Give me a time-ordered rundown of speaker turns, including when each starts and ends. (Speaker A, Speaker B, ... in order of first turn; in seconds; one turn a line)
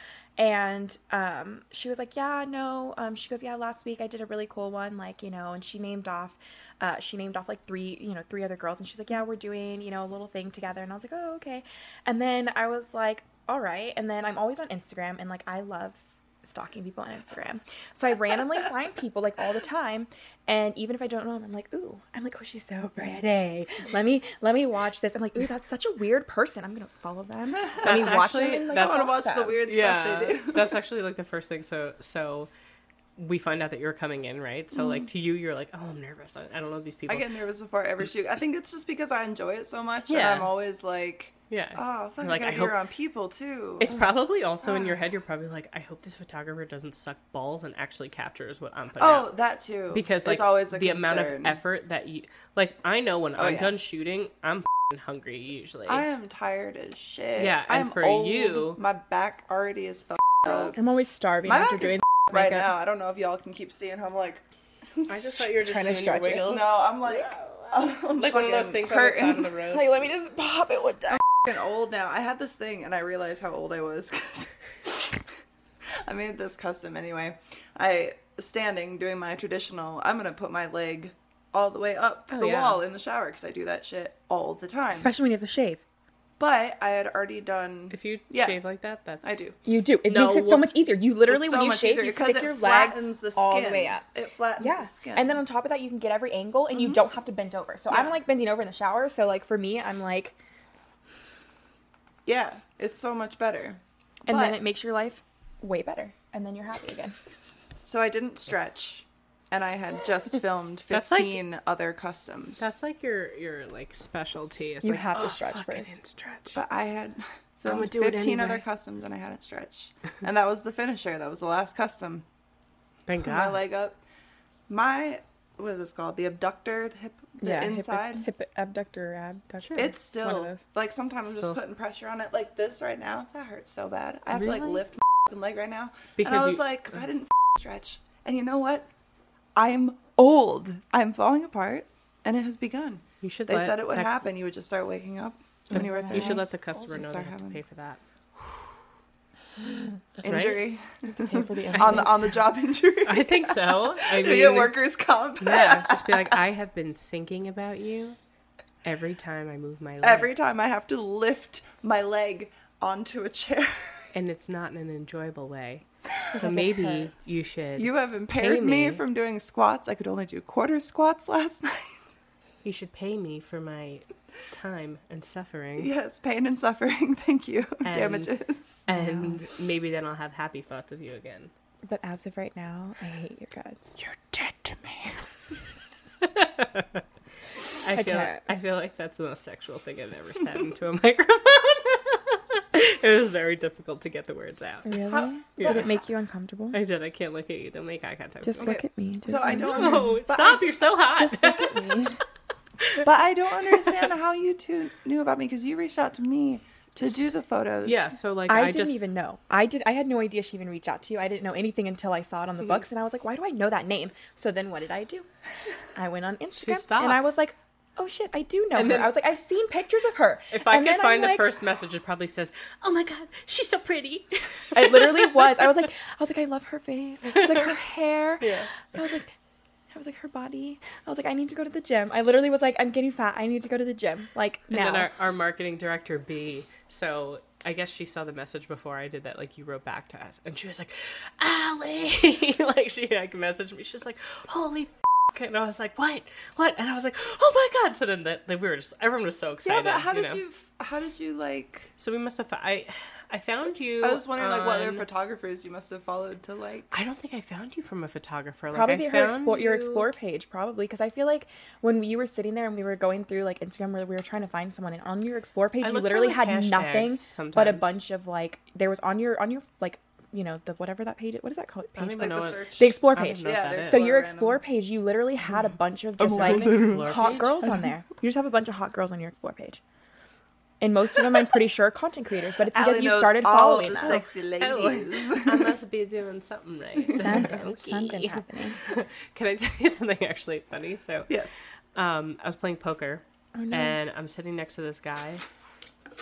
Speaker A: 0.4-29.6
Speaker B: 27.7-30.8
Speaker C: 27.8-32.5
Speaker C: 33.1-37.3
Speaker B: 34.8-35.0
Speaker B: 37.1-43.9
Speaker C: 40.1-40.5
Speaker C: 41.5-42.7
Speaker C: 43.8-49.3
Speaker B: 44.6-45.0
Speaker B: 49.0-51.6
Speaker C: 49.9-56.0
Speaker B: 53.4-53.7
Speaker B: 55.9-60.8
Speaker C: 57.4-58.8
Speaker A: 60.7-62.7
Speaker B: 61.5-65.5
Speaker C: 65.1-66.8
Speaker A: 65.6-66.6
Speaker B: 66.4-69.5
Speaker C: 68.0-70.0
Speaker A: 69.7-71.2
Speaker B: 71.1-75.2
Speaker B: 75.8-85.1
Speaker C: 82.3-82.8
Speaker A: 84.9-85.8
Speaker B: 86.4-88.5
Speaker C: 87.9-89.4
Speaker B: 89.2-89.5
Speaker A: 89.6-94.0
Speaker C: 90.0-90.8
Speaker B: 91.3-95.4
Speaker A: 94.6-100.4
Speaker B: 102.2-104.6
Speaker A: 104.3-107.2
Speaker B: 107.8-112.7
Speaker C: 110.9-111.4
Speaker C: 112.6-116.6
Speaker A: 114.8-116.0
Speaker B: 116.5-122.2
Speaker C: 117.7-118.6
Speaker C: 123.1-123.6
Speaker B: 123.2-124.0
Speaker B: 124.7-128.2
Speaker A: 127.4-130.6
Speaker B: 129.7-138.9
Speaker C: 131.3-131.6
Speaker C: 134.3-134.8
Speaker C: 136.2-136.6
Speaker B: 139.6-147.6
Speaker C: 143.2-144.2
Speaker A: 145.7-146.4
Speaker C: 145.7-148.0
Speaker B: 150.2-156.4
Speaker C: 150.2-150.6
Speaker A: 151.1-152.3
Speaker C: 151.7-152.2
Speaker C: 153.0-154.8
Speaker C: 155.4-158.2
Speaker C: 158.8-160.3
Speaker B: 160.0-164.1
Speaker C: 164.1-169.0
Speaker A: 166.3-167.2
Speaker B: 167.8-172.1
Speaker C: 172.6-175.9
Speaker B: 175.8-178.9
Speaker C: 177.8-181.5
Speaker A: 178.9-179.4
Speaker A: 181.8-183.9
Speaker C: 184.0-185.3
Speaker C: 186.2-187.0
Speaker C: 187.6-195.0
Speaker A: 187.9-188.4
Speaker A: 194.8-196.8
Speaker B: 195.1-195.9
Speaker C: 195.6-195.9
Speaker C: 196.7-198.7
Speaker A: 198.4-200.0
Speaker B: 198.6-200.7
Speaker C: 199.5-202.0
Speaker A: 201.2-202.2
Speaker B: 203.0-208.2
Speaker C: 203.6-204.1
Speaker C: 207.8-209.0
Speaker A: 208.5-215.3
Speaker A: 215.8-221.5
Speaker C: 216.6-217.3
Speaker C: 218.7-219.1
Speaker C: 220.5-225.9
Speaker A: 224.7-229.3
Speaker C: 228.4-228.9
Speaker A: 229.9-235.1
Speaker C: 234.7-250.4
Speaker B: 249.6-251.9
Speaker C: 252.0-255.0
Speaker B: 254.0-256.9
Speaker C: 256.9-260.1
Speaker A: 258.7-279.8
Speaker C: 265.8-267.9
Speaker C: 272.0-274.0
Speaker B: 272.2-274.6
Speaker B: 276.2-277.1
Speaker C: 276.2-277.7
Speaker A: 280.8-284.2
Speaker B: 282.7-285.8
Speaker C: 284.0-295.4
Speaker A: 287.1-288.8
Speaker A: 293.6-294.0